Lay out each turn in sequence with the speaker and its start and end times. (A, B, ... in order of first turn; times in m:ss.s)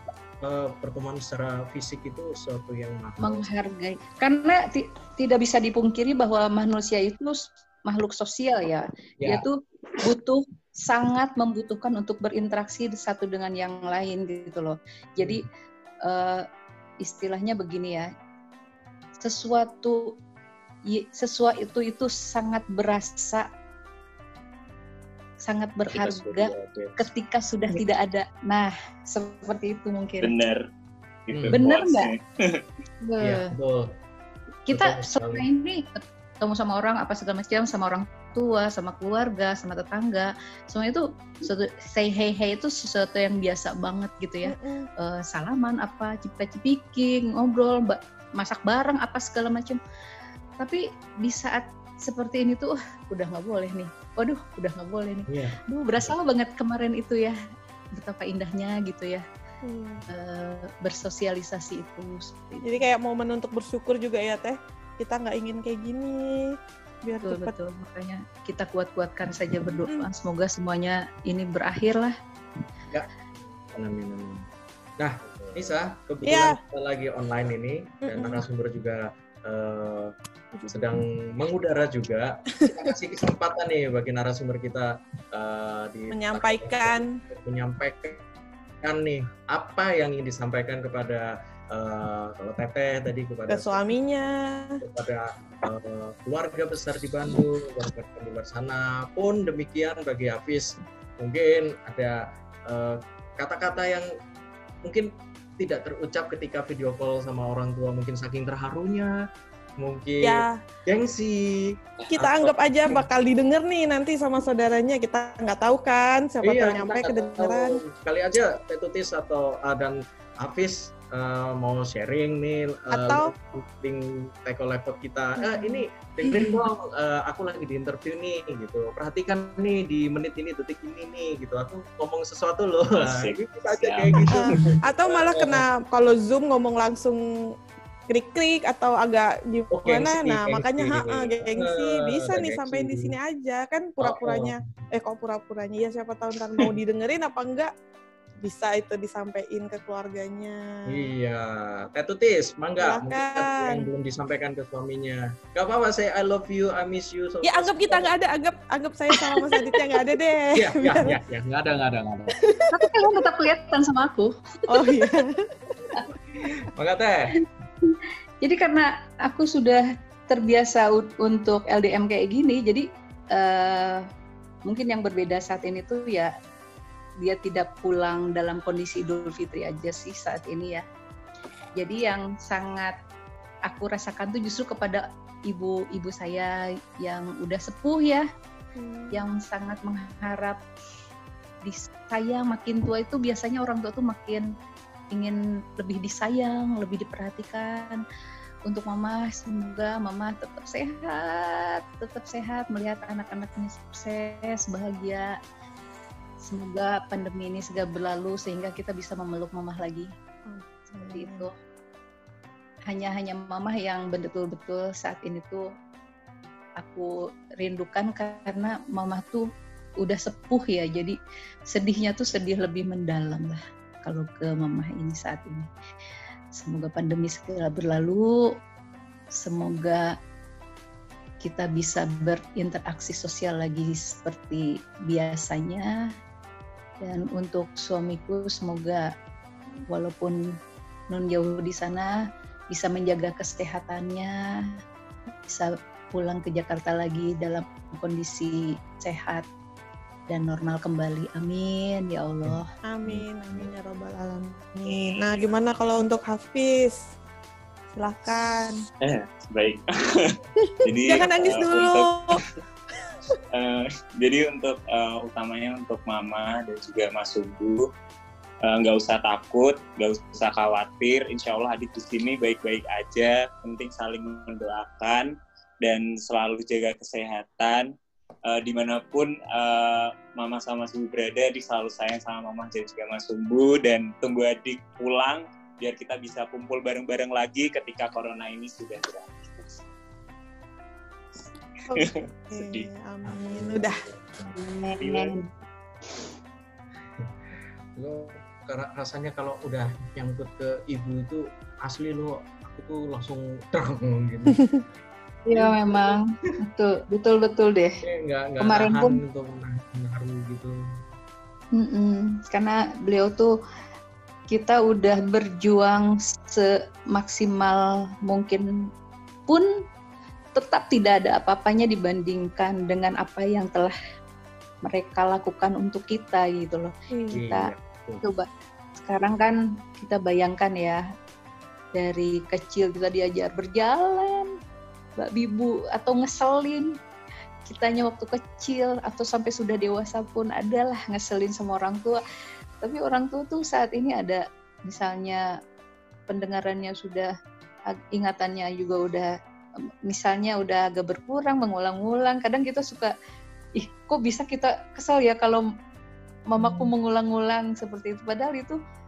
0:00.4-0:03.5 A
0:03.2-0:15.4 B
0:09.2-0:09.4 A
0:16.0-0:16.4 B
0:17.0-0:18.1 B
0:19.2-0:20.1 B
0:20.9-0:23.5 B
0:25.4-0:30.3 B
0:25.9-0:26.9 C
0:30.2-0:30.6 C
0:31.3-0:32.6 C
0:31.3-0:31.6 A
0:31.5-0:32.1 B
0:33.0-0:33.5 B
0:33.2-0:33.9 A
0:34.7-0:49.8 B
0:34.7-0:35.5 A
0:44.4-0:44.9 D
0:50.6-0:57.4 B
0:55.3-0:56.1 A
0:57.9-0:59.2 B
0:59.6-1:00.0 D
1:00.1-1:02.8 B
1:02.6-1:07.5 D
1:07.2-1:12.1 B
1:12.9-1:14.5 A
1:15.0-1:20.1 A
1:16.2-1:16.6 D
1:18.0-1:18.4 D
1:20.5-1:20.9 D
1:20.7-1:28.3 A
1:26.1-1:27.2 D
1:28.8-1:33.9 A
1:33.5-1:34.8 D
1:34.8-1:44.1 A
1:44.8-1:49.2 A
1:49.8-1:52.4 A
1:50.2-1:50.6 D
1:52.0-1:52.9 C
1:52.1-1:57.8 D
1:56.4-2:15.6 A
2:02.9-2:03.3 D
2:05.5-2:05.8 D
2:06.3-2:06.6 B
2:12.9-2:14.6 C
2:14.3-2:17.2 D
2:18.1-2:27.7 D
2:19.7-2:23.2 A
2:24.0-2:24.6 A
2:28.4-2:31.0 D
2:30.9-2:38.1 A
2:32.8-2:33.8 D
2:37.4-2:41.2 D
2:40.5-2:42.4 A
2:42.4-2:43.0 D
2:42.7-2:45.1 B
2:44.7-2:45.5 D
2:46.1-2:47.3 A
2:47.8-2:54.0 B
2:54.7-2:56.3 B
2:57.2-3:00.8 B
3:01.8-3:02.9 B
3:03.7-3:08.3 B
3:08.8-3:09.3 D
3:09.1-3:10.6 B
3:11.6-3:14.5 B
3:15.1-3:18.0 B
3:18.7-3:25.3 B
3:26.4-3:30.1 B
3:30.5-3:31.5 D
3:31.0-3:31.5 B
3:32.9-3:35.6 B
3:36.8-3:39.5 B
3:40.0-3:41.2 B
3:41.7-3:45.7 B
3:46.5-3:48.4 B
3:49.4-3:50.1 B
3:51.4-3:55.9 B
3:57.0-3:59.1 B
3:59.9-4:00.4 B
4:01.1-4:02.1 B
4:02.7-4:04.3 B
4:05.5-4:09.4 B
4:10.3-4:12.7 B
4:12.4-4:13.7 A
4:12.9-4:17.1 D
4:17.9-4:18.8 D
4:19.0-4:22.4 C
4:20.8-4:22.4 D
4:23.5-4:27.9 C
4:28.6-4:35.3 C
4:35.8-4:37.9 C
4:38.4-4:49.8 C
4:51.9-4:54.0 D
4:51.9-4:52.9 C
4:53.2-4:54.5 A
4:54.5-4:55.5 B
4:55.0-4:55.3 C
4:58.0-5:04.6 A
5:04.5-5:04.8 D
5:05.4-5:08.0 B
5:05.5-5:06.2 A
5:08.0-5:10.8 A
5:08.6-5:09.2 B
5:11.8-5:13.5 B
5:14.5-5:18.6 B
5:20.5-5:23.9 B
5:24.8-5:27.7 B
5:27.1-5:27.4 D
5:27.3-5:28.2 A
5:28.2-5:28.5 B
5:29.0-5:31.0 B
5:32.0-5:34.5 B
5:35.2-5:36.9 B
5:37.6-5:42.2 B
5:42.8-5:45.4 B
5:46.3-5:47.3 B
5:48.1-5:49.3 B
5:50.1-5:53.1 B
5:53.8-5:55.6 B
5:56.5-5:58.8 B